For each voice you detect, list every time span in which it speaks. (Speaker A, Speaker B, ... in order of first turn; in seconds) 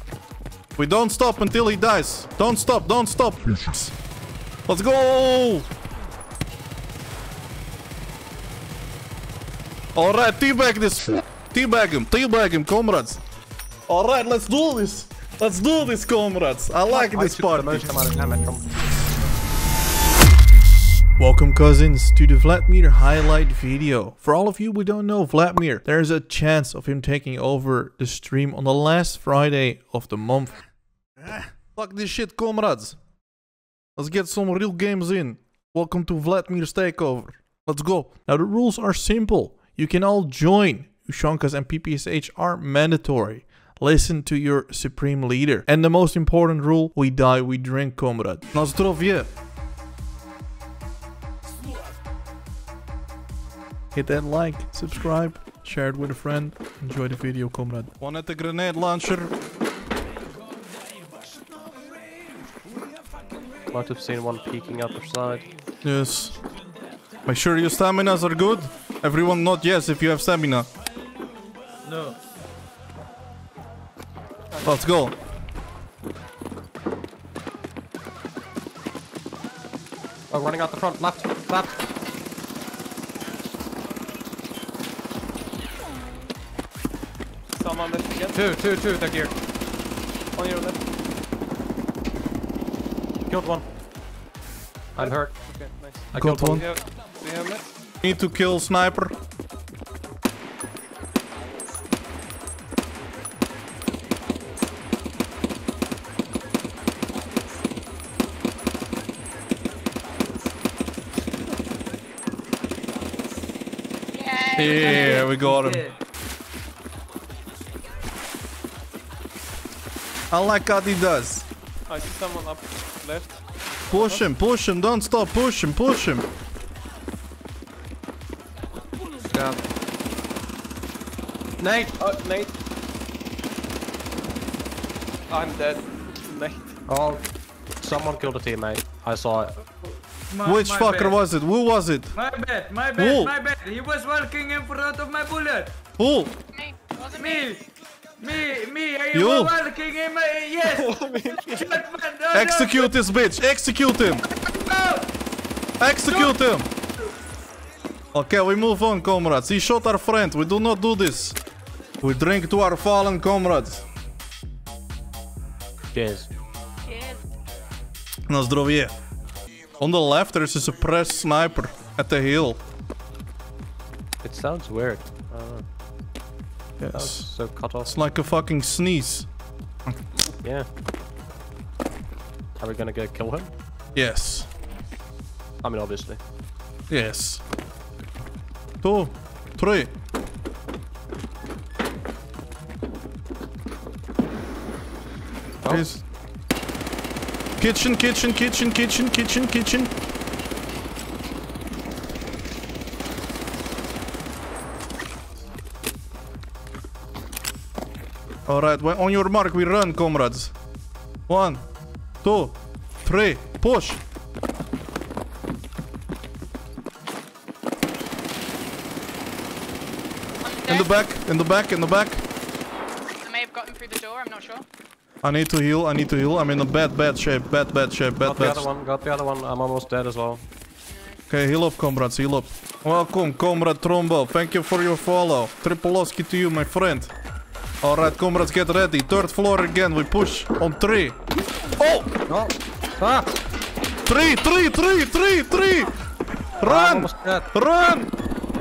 Speaker A: 0.8-3.9, 4.7-5.7, 9.9-13.2, 13.9-17.9, 21.2-30.6, 31.7-33.0, 34.0-49.3, 53.9-59.3, 65.8-66.3, 67.2-70.7, 74.6-75.2, 96.2-96.6, 98.0-99.1, 114.5-115.9, 120.3-121.5, 123.9-126.3, 140.4-142.2, 142.9-143.3, 146.0-146.3, 149.1-149.5, 152.3-154.2, 155.8-156.7, 158.1-161.4, 162.0-163.8, 168.3-168.9, 169.8-172.6, 176.8-179.3, 183.9-184.5, 186.9-187.4, 188.8-189.9, 195.7-196.0, 197.6-199.9, 208.5-210.5, 211.3-211.6, 212.2-214.0, 220.7-222.2, 225.2-228.7, 231.3-237.1, 237.8-241.2, 241.8-242.1, 244.1-245.9, 246.6-248.1
Speaker B: 16.9-18.7, 63.7-65.5, 80.3-81.7, 88.3-89.3, 93.3-93.6, 95.0-95.4, 96.1-96.6, 129.3-129.6, 131.6-131.9, 136.9-137.2, 137.8-139.6, 165.9-166.3, 174.2-175.6, 176.9-177.9, 182.6-183.5, 185.6-186.2, 195.6-195.9, 228.2-230.4, 242.3-243.3, 246.6-247.5
Speaker C: 87.5-88.5, 90.3-90.8, 95.0-97.7, 121.9-124.2, 132.0-132.5, 135.3-136.7, 151.2-151.6
Speaker D: 114.1-115.3, 146.5-147.6, 166.9-167.2, 220.4-221.0, 223.2-224.6
Speaker E: 140.3-141.2, 142.1-145.7, 147.2-147.6, 148.2-152.9, 154.5-155.1